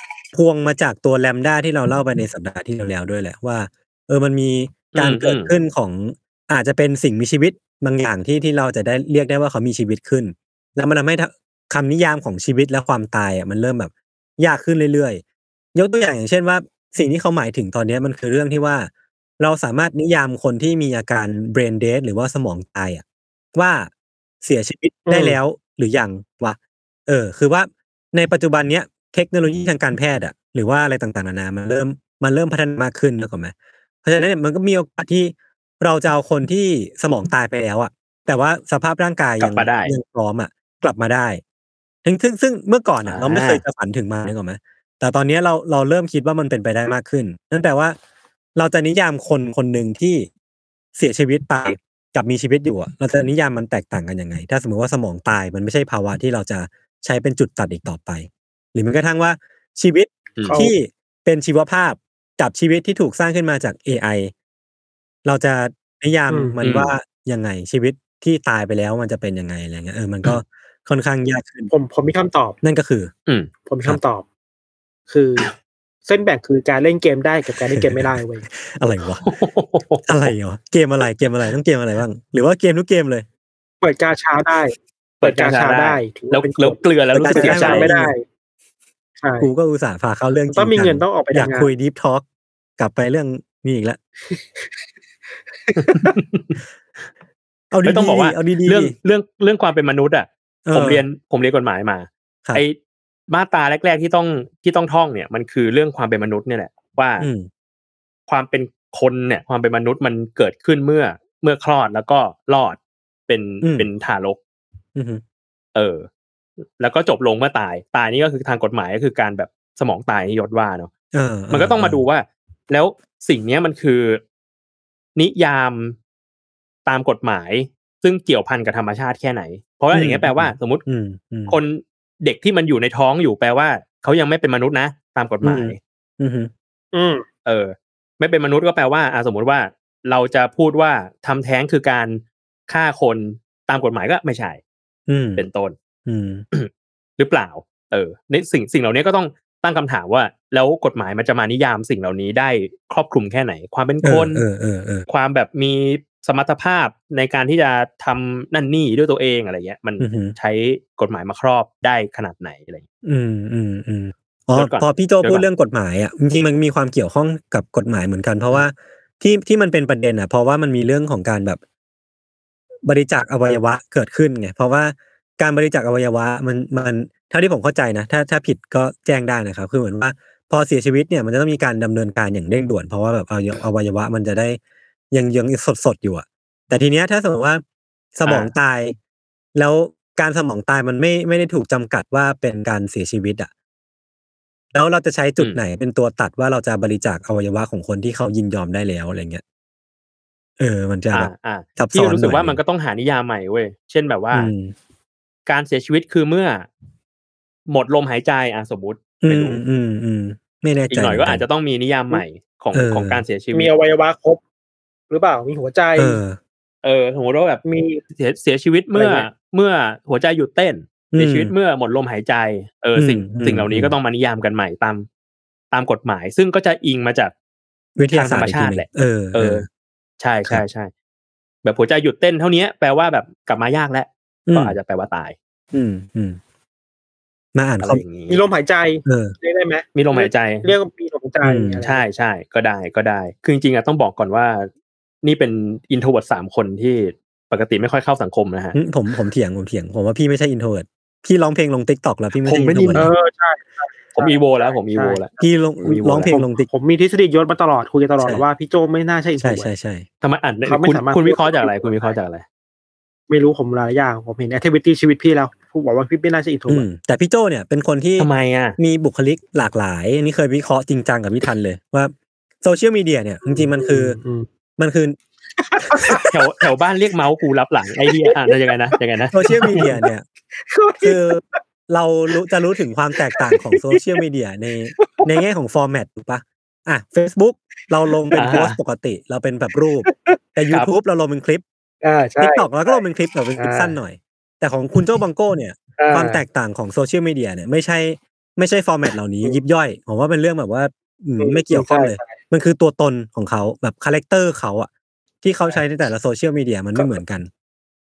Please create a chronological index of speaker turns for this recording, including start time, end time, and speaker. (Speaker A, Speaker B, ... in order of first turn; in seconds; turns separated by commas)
Speaker A: 0.3-15.2, Speaker B: 4.9-5.5, Speaker A: 15.7-23.9, Speaker A: 24.4-33.5, Speaker C: 25.1-25.4, Speaker A: 34.0-41.4, Speaker B: 39.4-39.9, Speaker A: 42.0-48.0, Speaker B: 43.1-43.6, Speaker A: 48.6-50.3, Speaker A: 51.0-64.3, Speaker B: 60.4-60.6, Speaker C: 60.5-60.8, Speaker A: 65.2-71.7, Speaker C: 66.3-66.6, Speaker B: 66.6-66.9, Speaker C: 71.7-72.6, Speaker A: 72.6-73.1, Speaker C: 73.7-74.2, Speaker C: 75.1-75.5, Speaker C: 76.1-78.5, Speaker A: 77.7-79.3, Speaker B: 79.2-80.3, Speaker A: 80.1-83.3, Speaker C: 83.8-88.2, Speaker B: 85.2-88.0, Speaker A: 87.1-88.1, Speaker C: 89.2-89.5, Speaker A: 89.4-92.2, Speaker C: 90.5-91.7, Speaker A: 92.8-94.0, Speaker C: 94.3-94.7, Speaker C: 95.7-96.2, Speaker B: 95.9-96.5, Speaker A: 97.7-98.9, Speaker B: 97.8-102.8, Speaker A: 100.7-101.0, Speaker B: 103.3-107.3, Speaker A: 107.2-107.5, Speaker B: 108.3-114.4, Speaker A: 113.6-113.9, Speaker A: 115.0-115.2, Speaker B: 115.8-116.1, Speaker B: 116.8-120.9, Speaker A: 121.1-122.0, Speaker B: 121.5-124.2, Speaker B: 125.2-126.0, Speaker B: 126.9-130.8, Speaker A: 129.9-131.6, Speaker B: 131.5-135.8, Speaker A: 135.4-136.5, Speaker C: 136.9-137.2, Speaker B: 137.5-144.6, Speaker A: 145.1-145.4, Speaker B: 145.4-145.8, Speaker A: 146.1-146.4, Speaker B: 146.5-154.4, Speaker A: 154.0-155.1, Speaker B: 155.1-162.8, Speaker A: 160.0-160.3, Speaker A: 163.0-171.6, Speaker B: 164.5-165.4, Speaker A: 172.9-184.6, Speaker A: 185.1-187.6, Speaker A: 188.2-189.0, Speaker B: 188.3-188.5, Speaker A: 189.6-193.5, Speaker A: 194.7-199.4, Speaker A: 200.6-202.6, Speaker B: 201.1-204.5, Speaker A: 204.3-204.7, Speaker B: 205.5-206.7, Speaker B: 207.7-209.6, Speaker A: 209.2-211.4, Speaker B: 210.9-213.7, Speaker A: 212.7-213.2, Speaker C: 213.5-214.4, Speaker C: 215.1-216.2, Speaker A: 216.0-216.4, Speaker B: 216.8-217.6, Speaker C: 217.7-218.0, Speaker B: 218.1-225.1, Speaker C: 218.9-219.3, Speaker A: 221.1-221.5, Speaker A: 223.0-223.9, Speaker B: 225.7-227.3, Speaker A: 228.0-229.6, Speaker B: 228.1-229.7, Speaker B: 230.2-230.9, Speaker B: 231.6-235.3, Speaker A: 234.5-234.8, Speaker A: 235.7-236.4, Speaker A: 237.6-238.0, Speaker B: 237.8-238.4, Speaker C: 238.3-242.1, Speaker A: 239.1-239.3, Speaker B: 240.0-240.7, Speaker A: 241.4-241.8, Speaker B: 241.8-244.7, Speaker B: 245.2-248.8, Speaker A: 248.7-253.1, Speaker B: 252.4-253.1, Speaker C: 252.9-255.3, Speaker B: 254.2-256.4, Speaker A: 255.4-256.7, Speaker C: 256.3-259.7, Speaker A: 259.4-260.1, Speaker B: 260.2-262.4, Speaker C: 260.7-262.2, Speaker C: 263.3-266.9, Speaker A: 266.7-274.2, Speaker B: 268.2-268.8, Speaker C: 273.4-274.5, Speaker A: 274.8-275.2, Speaker C: 275.6-276.3, Speaker A: 275.8-276.3, Speaker B: 276.3-279.9, Speaker C: 278.1-278.7, Speaker A: 279.3-280.2, Speaker C: 279.5-281.6, Speaker A: 281.0-291.6, Speaker C: 283.2-284.2, Speaker C: 285.0-285.4, Speaker B: 288.4-288.8, Speaker C: 290.1-290.4, Speaker C: 292.0-293.0, Speaker A: 292.4-304.9, Speaker C: 293.6-294.0, Speaker C: 296.0-296.4, Speaker C: 301.4-302.4, Speaker A: 305.4-307.5, Speaker C: 306.9-307.2